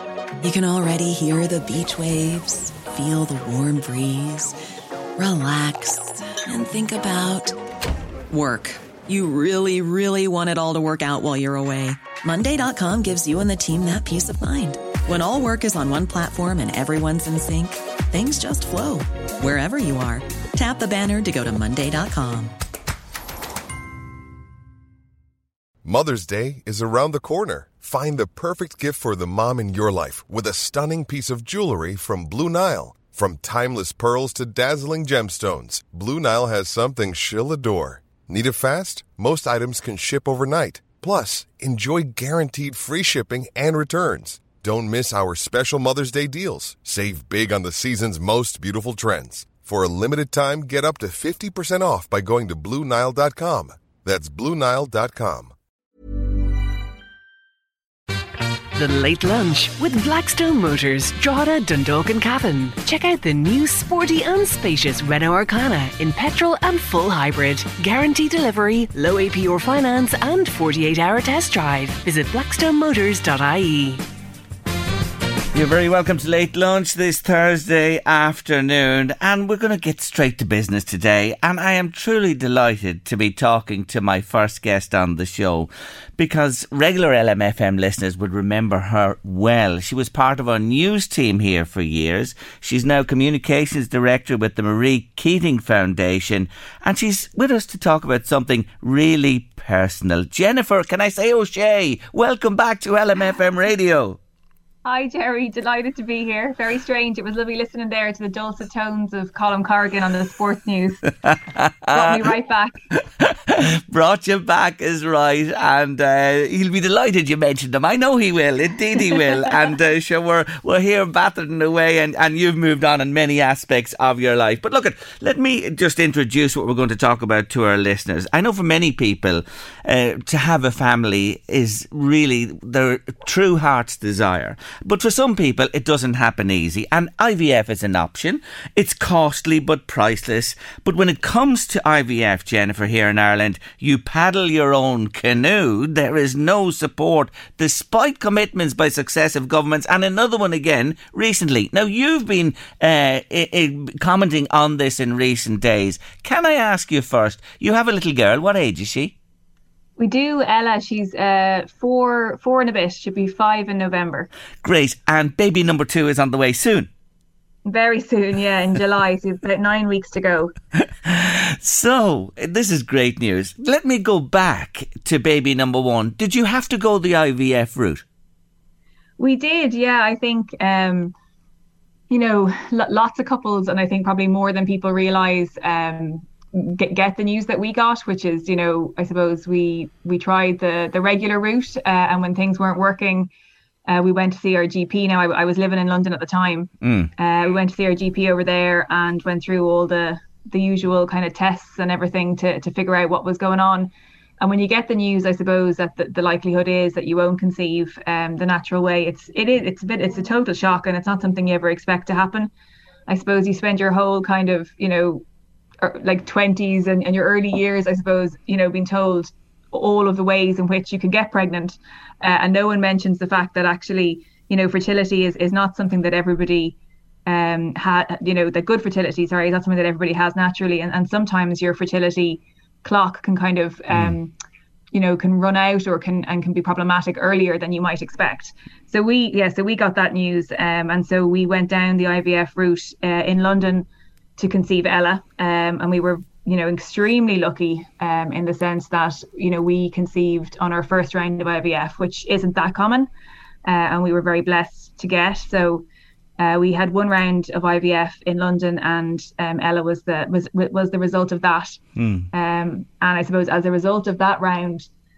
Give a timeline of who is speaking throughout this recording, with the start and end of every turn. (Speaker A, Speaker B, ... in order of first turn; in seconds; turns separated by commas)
Speaker A: 0.4-4.5, Speaker A: 5.2-7.5, Speaker A: 8.3-22.5, Speaker B: 25.8-55.5, Speaker C: 58.8-74.0, Speaker D: 75.5-104.2, Speaker E: 104.8-111.0, Speaker D: 111.2-112.3, Speaker E: 111.9-112.8, Speaker D: 113.0-159.1, Speaker E: 160.0-164.3, Speaker D: 164.6-166.9, Speaker E: 167.7-170.5, Speaker D: 170.8-178.0, Speaker E: 179.2-181.1, Speaker E: 182.1-193.3, Speaker E: 193.8-203.9, Speaker D: 196.8-197.1, Speaker E: 204.4-212.5, Speaker E: 213.1-215.2, Speaker E: 215.8-226.8, Speaker E: 227.3-234.3, Speaker E: 234.9-253.1, Speaker E: 253.6-255.8, Speaker E: 256.4-264.9, Speaker D: 261.9-262.3